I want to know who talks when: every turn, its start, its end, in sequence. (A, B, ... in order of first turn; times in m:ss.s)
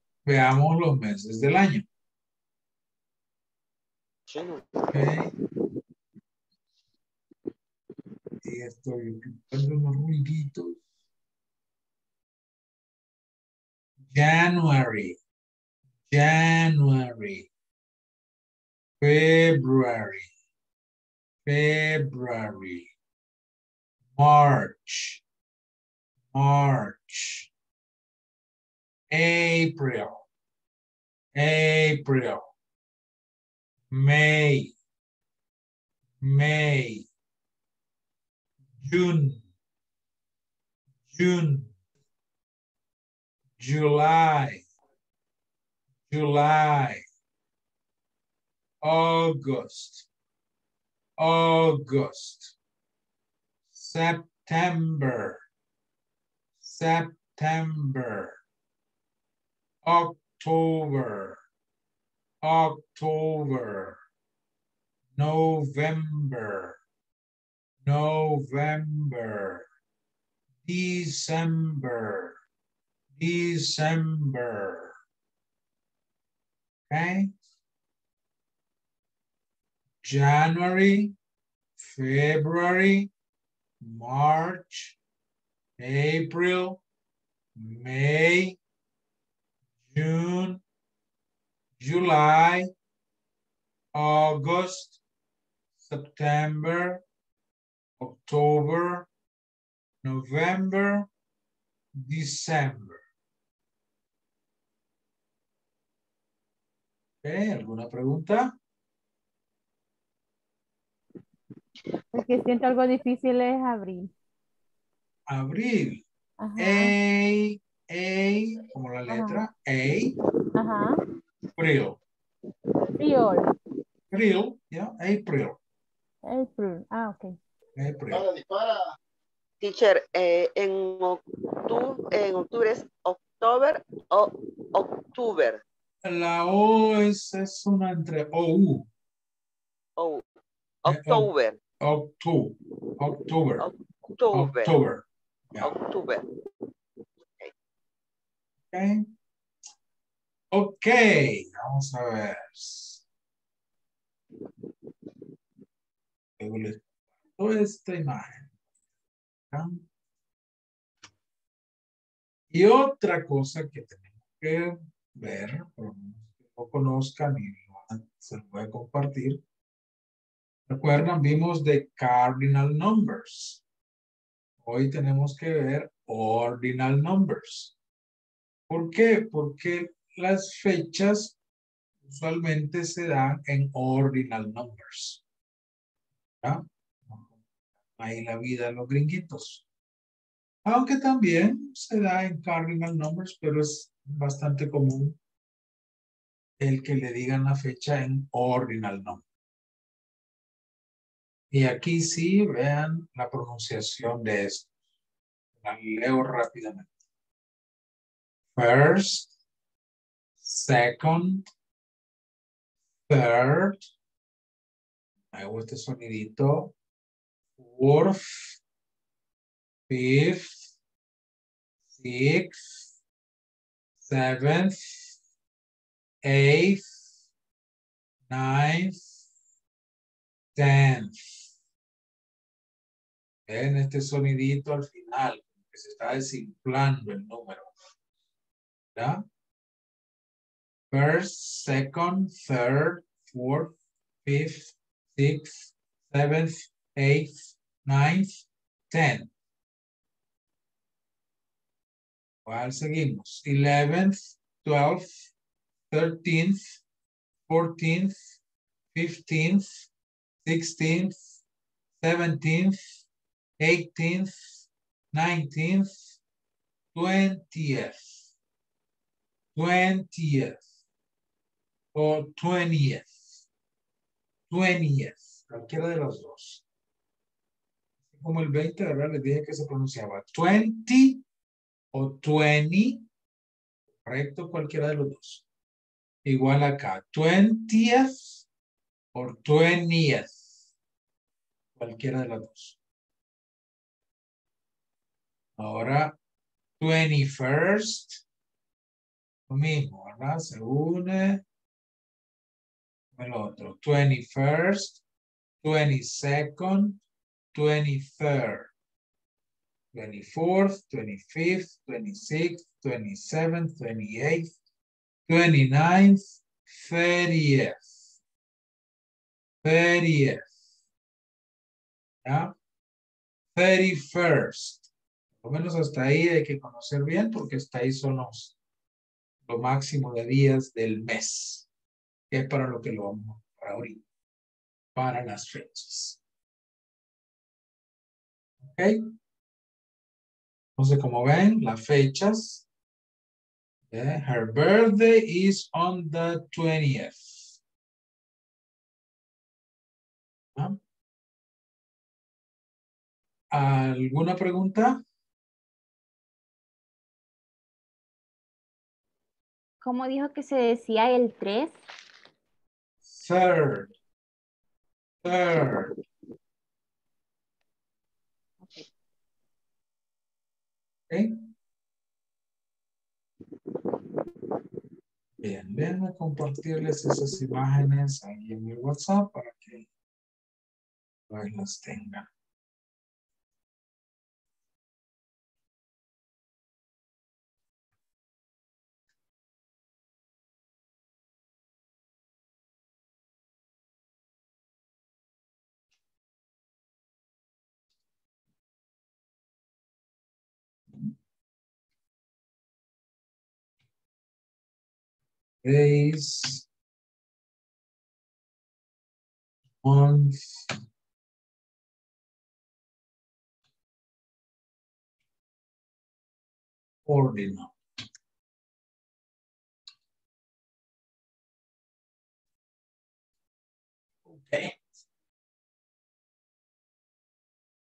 0:00.3-0:01.9 A
0:04.3-0:04.9 B
0:04.9-0:05.3 A
0:08.4-0:10.8 A
0:14.1-0:15.2 A
0:16.1-0:17.5 A
0:19.0-0:20.3 A
0:21.4-0:22.9 A
0:24.2-0:25.2 A
0:26.3-0:27.5 A
0:29.1-0:30.2 A
0:31.4-0:32.5 A
0:33.9-0:34.7 A
0:36.2-0:37.1 A
0:38.8-0:39.4 A
0:41.1-0:41.7 A
0:43.6-0:44.6 A
0:46.1-0:47.0 A
0:48.8-0:50.1 A
0:51.2-0:52.6 A
0:53.7-0:55.4 A
0:56.6-0:58.4 A
0:59.8-1:01.4 A
1:02.4-1:04.0 A
1:05.2-1:06.8 A
1:07.8-1:09.6 A
1:10.6-1:12.4 A
1:13.2-1:15.0 A
1:16.9-1:17.3 A
1:20.0-1:21.2 A
1:21.8-1:23.1 A
1:23.8-1:25.0 A
1:25.8-1:26.8 A
1:27.6-1:28.6 A
1:29.9-1:30.6 A
1:31.8-1:32.7 A
1:33.9-1:35.0 A
1:35.8-1:37.0 A
1:38.0-1:39.1 A
1:40.0-1:41.1 A
1:42.0-1:43.0 A
1:47.2-1:48.5 A
1:52.1-1:54.1 C
1:55.3-1:56.0 A
1:56.4-1:56.9 C
1:56.6-2:00.2 A
1:59.1-1:59.4 C
2:00.6-2:01.0 C
2:01.6-2:02.0 A
2:03.0-2:03.5 C
2:04.1-2:05.6 A
2:06.2-2:07.4 C
2:07.8-2:08.3 A
2:09.6-2:15.6 B
2:16.0-2:18.9 A
2:20.0-2:20.2 B
2:20.8-2:21.6 B
2:20.9-2:23.7 A
2:23.6-2:24.7 B
2:24.3-2:25.8 A
2:25.6-2:26.2 B
2:28.7-2:29.0 A
2:30.5-2:33.0 A
2:36.4-2:36.8 A
2:37.4-2:38.5 A
2:39.5-2:39.8 A
2:42.5-2:49.4 A
2:50.7-2:53.6 A
2:54.6-2:57.7 A
2:58.7-3:01.4 A
3:02.0-3:05.2 A
3:06.4-3:07.3 A
3:08.0-3:09.6 A
3:10.7-3:15.2 A
3:16.6-3:19.2 A
3:21.5-3:24.7 A
3:25.6-3:26.9 A
3:28.6-3:29.3 A
3:30.4-3:31.5 A
3:33.1-3:33.8 A
3:35.3-3:36.7 A
3:37.6-3:38.6 A
3:39.9-3:40.6 A
3:41.9-3:42.8 A
3:44.0-3:45.2 A
3:46.2-3:46.9 A
3:48.3-3:49.2 A
3:50.6-3:51.4 A
3:53.5-3:57.8 A
3:59.0-3:59.2 A
4:00.9-4:09.3 A
4:12.5-4:15.1 A
4:15.9-4:16.6 A
4:17.5-4:18.2 A
4:18.9-4:19.8 A
4:20.4-4:21.2 A
4:22.0-4:22.8 A
4:23.6-4:26.0 A
4:26.9-4:28.2 A
4:29.6-4:30.6 A
4:31.9-4:33.2 A
4:34.5-4:36.6 A
4:38.1-4:41.2 A
4:41.9-4:43.0 A
4:44.1-4:45.4 A
4:46.2-4:48.4 A
4:49.1-4:50.5 A
4:51.8-4:52.8 A
4:55.6-4:56.1 A
4:56.8-4:58.2 A
4:59.5-5:01.4 A
5:03.2-5:05.0 A
5:05.6-5:07.0 A
5:07.5-5:08.7 A
5:09.9-5:14.5 A
5:15.3-5:17.9 A
5:19.6-5:20.5 A
5:22.2-5:22.5 A
5:23.6-5:24.9 A
5:25.4-5:28.6 A
5:29.4-5:31.7 A
5:32.3-5:34.0 A
5:35.0-5:36.2 A
5:38.7-5:39.0 A
5:40.8-5:42.6 A
5:43.9-5:47.6 A
5:53.5-5:55.0 A
5:59.8-6:01.8 D
6:03.1-6:03.9 A
6:05.2-6:05.9 A
6:11.1-6:11.5 A
6:15.4-6:19.9 A
6:21.3-6:22.3 A
6:45.6-6:46.7 A
6:49.8-6:50.7 A
6:57.1-6:57.7 A
7:04.3-7:04.8 A